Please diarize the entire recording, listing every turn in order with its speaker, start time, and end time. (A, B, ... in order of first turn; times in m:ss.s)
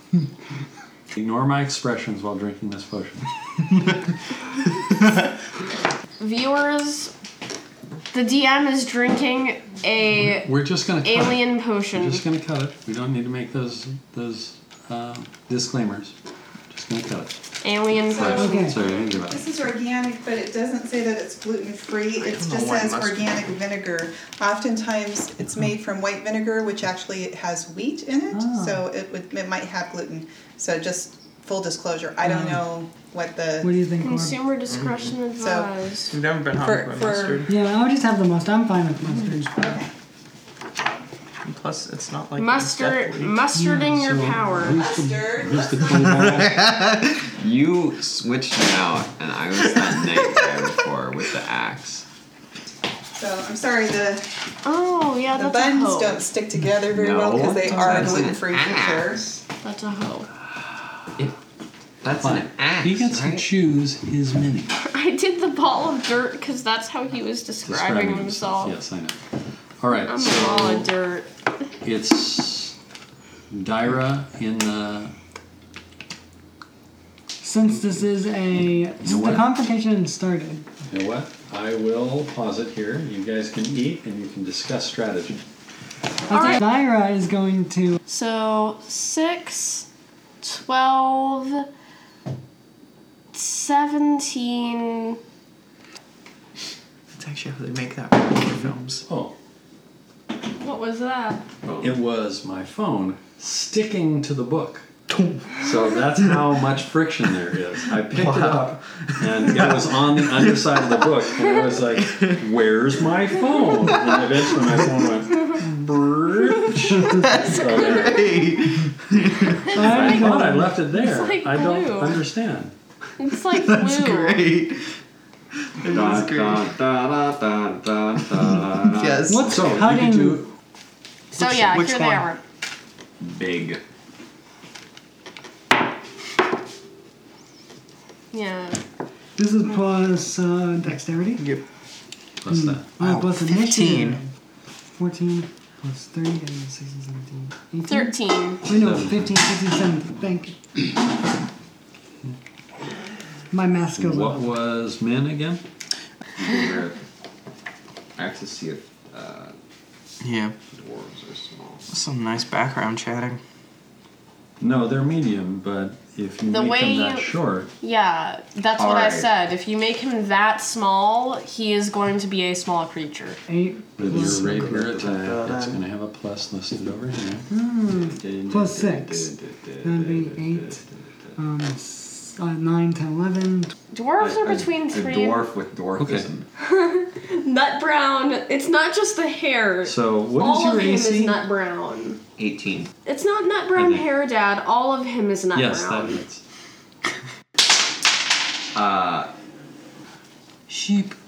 0:01.1-0:03.3 A
0:06.2-0:07.1 B
0:08.1-0:12.2 B
0:10.2-0:16.1 A
0:16.7-0:17.4 A
0:17.6-0:19.0 B
0:18.0-0:19.5 A
0:18.3-0:18.8 C
0:19.3-0:33.7 D
0:22.2-0:23.5 E
0:28.3-0:28.8 C
0:32.2-0:32.6 C
0:33.6-0:34.4 C
0:34.0-0:36.1 B
0:34.7-0:35.1 E
0:35.4-0:35.7 D
0:36.1-0:37.5 E
0:36.6-0:37.5 D
0:37.4-0:39.8 C
0:41.4-0:43.5 E
0:42.4-0:44.9 B
0:43.5-0:45.1 C
0:44.6-0:46.6 A
0:44.6-0:46.3 D
0:45.9-0:47.1 E
0:47.4-0:52.0 F
0:49.7-0:50.5 E
0:53.1-0:54.3 D
0:54.6-0:56.2 B
0:55.3-0:59.4 D
0:56.9-0:59.2 F
0:57.7-0:58.2 A
0:59.6-1:00.3 B
1:02.0-1:03.5 F
1:02.2-1:04.7 A
1:04.8-1:08.8 B
1:07.6-1:09.2 A
1:09.8-1:10.9 A
1:09.9-1:11.3 B
1:11.8-1:12.7 A
1:13.5-1:15.1 A
1:17.4-1:20.7 C
1:19.0-1:19.5 A
1:20.9-1:25.4 A
1:26.3-1:28.0 C
1:26.3-1:26.6 B
1:28.1-1:29.9 B
1:30.4-1:31.7 B
1:33.3-1:35.2 B
1:37.2-1:39.0 E
1:39.0-1:39.3 A
1:40.6-1:41.4 B
1:41.6-1:42.0 F
1:41.8-1:44.9 A
1:45.1-1:45.6 E
1:45.6-1:58.4 A
1:48.1-1:50.5 E
1:52.0-1:52.4 E
1:57.0-1:59.7 E
1:57.6-1:58.2 B
1:59.6-2:00.4 B
1:59.7-2:00.8 C
1:59.7-2:02.7 A
2:00.9-2:02.2 B
2:03.2-2:04.5 B
2:03.5-2:04.8 E
2:05.8-2:06.7 E
2:05.8-2:09.5 F
2:08.9-2:09.5 E
2:09.3-2:10.4 C
2:09.5-2:10.5 A
2:11.3-2:12.4 B
2:11.4-2:12.3 E
2:13.2-2:13.8 F
2:18.3-2:18.8 B
2:19.4-2:21.4 C
2:22.4-2:22.9 A
2:22.5-2:24.3 C
2:23.0-2:24.2 E
2:25.0-2:31.0 C
2:27.9-2:28.6 B
2:28.7-2:29.3 A
2:33.5-2:34.4 C
2:33.9-2:35.6 A
2:36.4-2:37.0 F
2:38.2-2:39.5 F
2:40.2-2:40.6 E
2:40.7-2:41.9 F
2:41.9-2:43.4 E
2:44.6-2:47.7 A
2:46.5-2:53.4 B
2:48.7-2:49.3 F
2:53.5-2:54.5 C
2:54.0-2:57.5 A
2:54.1-2:55.7 F
2:54.4-2:54.8 E
2:57.5-3:00.8 C
2:57.9-3:01.3 F
3:01.4-3:03.7 C
3:03.9-3:05.4 B
3:04.2-3:06.5 F
3:06.0-3:06.3 A
3:06.6-3:12.2 B
3:09.8-3:11.4 A
3:12.4-3:12.9 F
3:13.0-3:16.2 B
3:13.7-3:14.0 A
3:15.5-3:16.4 A
3:18.7-3:19.3 F
3:20.7-3:21.2 E